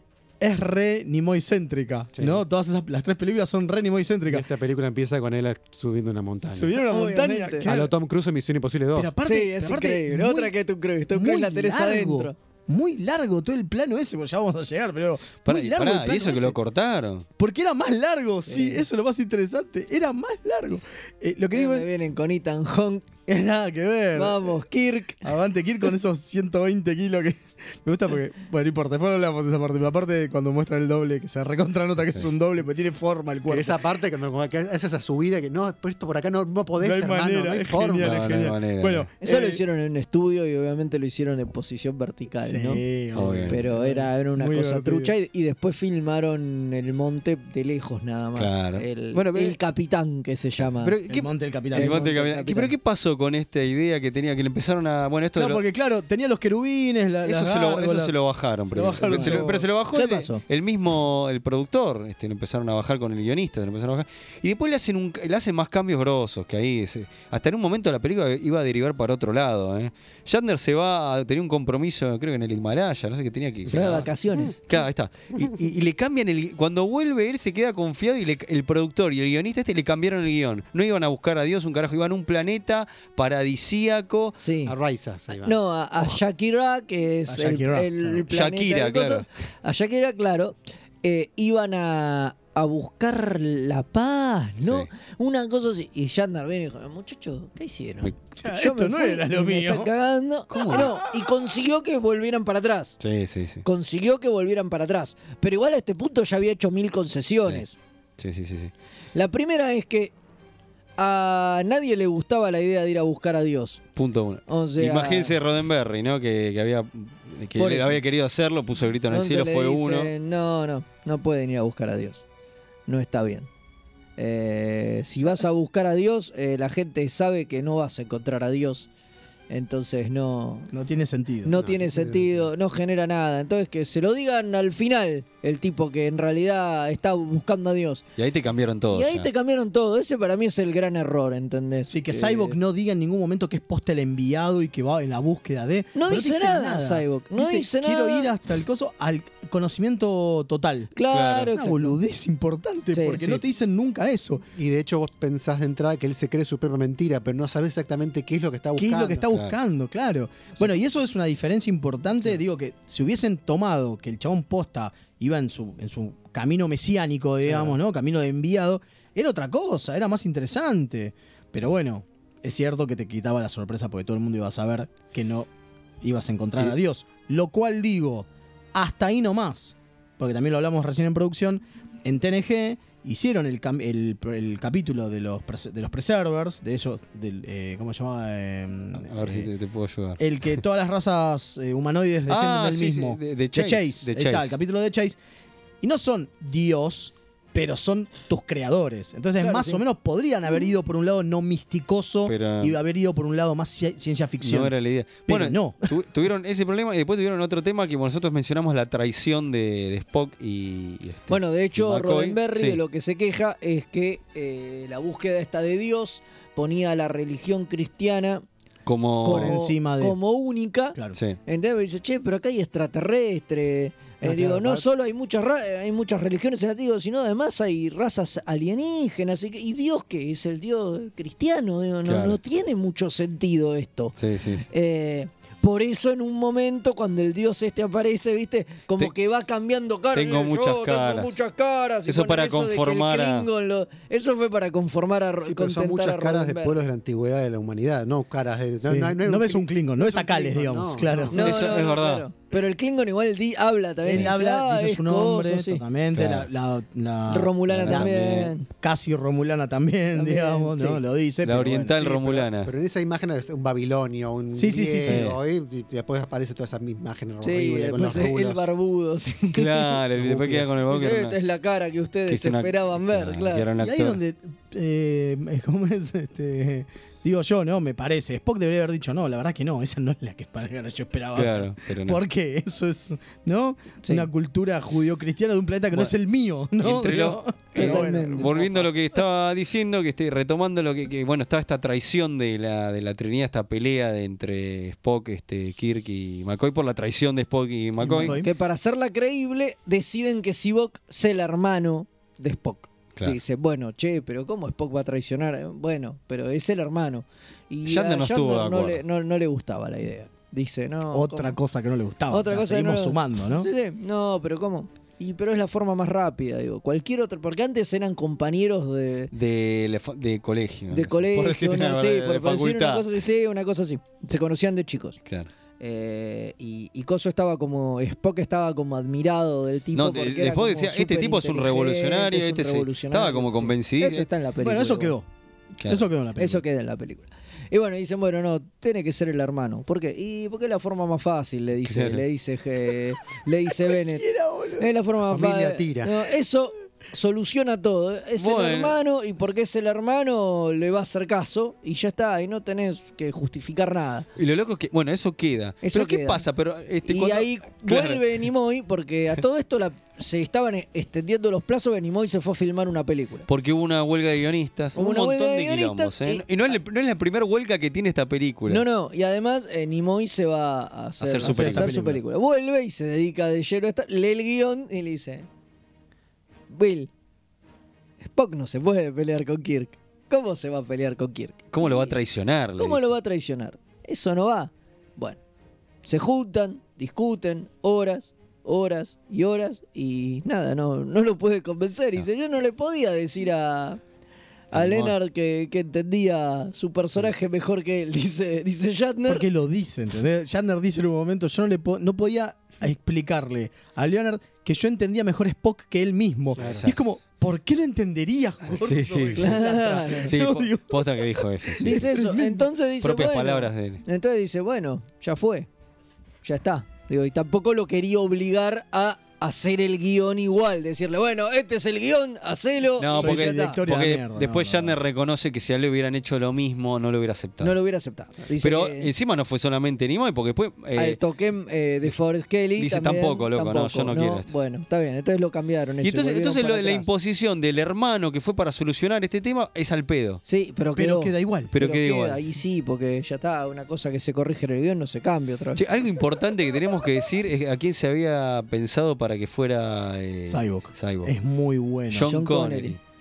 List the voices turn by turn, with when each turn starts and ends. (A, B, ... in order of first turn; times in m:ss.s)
0:00.4-0:04.5 A
0:02.2-0:02.4 B
0:04.3-0:06.8 B
0:06.4-0:07.9 A
0:06.8-0:07.7 C
0:07.6-0:09.1 B
0:08.9-0:10.5 A
0:09.2-0:12.4 C
0:11.1-0:16.6 A
0:15.5-0:17.3 D
0:17.4-0:21.9 A
0:18.4-0:18.8 C
0:21.5-0:23.1 C
0:23.3-0:24.6 A
0:24.2-0:25.2 C
0:25.2-0:33.8 A
0:33.5-0:38.3 B
0:36.8-0:39.6 A
0:38.0-0:39.1 D
0:39.2-0:42.8 C
0:42.4-0:45.1 A
0:43.2-0:43.6 D
0:43.5-0:51.0 C
0:48.4-0:49.6 D
0:50.8-0:55.6 D
0:51.1-0:52.0 A
0:51.7-0:52.7 C
0:55.4-0:58.2 A
0:57.2-1:24.4 D
0:58.7-0:59.7 A
0:59.0-1:00.4 C
1:13.7-1:14.6 C
1:24.4-1:24.7 C
1:24.7-1:25.6 B
1:25.4-1:43.0 C
1:27.3-1:28.2 A
1:28.3-1:29.2 D
1:34.6-1:34.9 D
1:38.4-1:39.9 A
1:40.5-1:41.0 D
1:43.0-1:43.6 D
1:43.6-1:47.8 C
1:48.2-1:48.7 D
1:49.2-1:50.1 C
1:51.0-1:53.8 C
1:54.0-2:00.1 D
1:54.5-1:55.4 C
1:57.6-1:58.0 C
1:59.1-2:02.2 C
2:02.9-2:03.5 C
2:04.2-2:08.9 C
2:09.5-2:10.7 C
2:10.7-2:11.5 A
2:11.4-2:18.0 C
2:11.5-2:12.5 B
2:18.2-2:19.3 D
2:18.9-2:22.6 C
2:21.9-2:34.4 A
2:26.0-2:28.3 C
2:31.0-2:32.0 C
2:31.1-2:31.5 D
2:32.9-2:33.4 C
2:34.6-2:39.3 B
2:38.8-2:55.5 A
2:56.0-3:09.5 A
3:09.0-3:10.2 D
3:10.2-3:15.2 A
3:12.3-3:14.6 D
3:15.8-3:24.7 A
3:19.4-3:19.8 C
3:22.3-3:22.8 D
3:24.4-3:32.8 D
3:25.3-3:25.8 A
3:31.3-3:38.4 C
3:38.9-3:39.6 D
3:39.2-3:54.2 C
3:39.3-3:40.2 A
3:40.9-3:41.2 A
3:44.2-3:44.8 A
3:52.1-3:52.4 D
3:54.2-3:54.6 D
3:54.7-4:06.7 C
4:00.1-4:01.3 D
4:02.1-4:03.5 D
4:05.4-4:11.3 B
4:08.8-4:11.4 A
4:11.3-4:15.8 C
4:11.3-4:12.3 D
4:14.0-4:18.1 A
4:16.1-4:16.5 D
4:17.3-4:18.7 C
4:17.7-4:18.5 D
4:18.8-4:22.5 A
4:20.2-4:21.0 C
4:21.4-4:22.7 D
4:22.6-4:28.6 B
4:24.5-4:25.3 A
4:25.1-4:25.4 D
4:27.4-4:30.0 C
4:29.5-4:31.4 D
4:30.2-4:30.7 A
4:30.9-4:33.7 C
4:32.3-4:34.2 D
4:33.8-4:48.7 A
4:41.4-4:42.2 D
4:44.0-4:44.3 C
4:46.8-4:58.4 D
4:47.7-4:48.9 C
4:58.0-4:58.5 A
4:58.2-5:11.6 C
5:07.9-5:09.0 D
5:11.1-5:13.7 A
5:12.3-5:19.3 C
5:19.3-5:23.1 D
5:20.9-5:25.2 C
5:25.8-5:35.2 C
5:30.0-5:34.3 D
5:34.6-5:35.3 A
5:35.8-5:36.0 D
5:35.9-5:36.6 A
5:36.4-5:44.3 C
5:41.8-5:42.2 D
5:43.8-5:44.9 A
5:44.8-5:54.3 C
5:45.2-5:46.1 B
5:48.4-5:49.0 D
5:54.4-5:58.4 D
5:55.8-5:56.4 C
5:57.0-6:03.5 C
6:03.5-6:08.8 D
6:05.0-6:06.8 C
6:08.7-6:15.5 C
6:11.2-6:11.9 D
6:11.4-6:12.2 A
6:16.7-6:17.1 C
6:18.2-6:22.2 C
6:21.7-6:23.1 D
6:22.8-6:25.4 C
6:26.0-6:34.0 C
6:34.7-6:39.4 C
6:34.7-6:35.2 D
6:39.3-6:52.7 A
6:46.6-6:46.8 B
6:46.6-6:47.0 D
6:48.8-6:49.6 D
6:49.4-6:50.3 C
6:50.2-6:52.1 D
6:51.8-6:55.7 C
6:53.0-6:54.0 D
6:56.4-7:03.8 C
7:03.0-7:07.8 D
7:03.1-7:05.0 A
7:07.6-7:09.1 C
7:08.6-7:11.2 D
7:11.0-7:17.1 C
7:12.8-7:14.5 D
7:16.0-7:20.4 D
7:20.4-7:25.8 C
7:21.0-7:21.7 A
7:21.7-7:22.4 D
7:25.8-7:31.3 D
7:30.5-7:32.4 A
7:32.1-7:33.0 D
7:32.2-7:33.0 C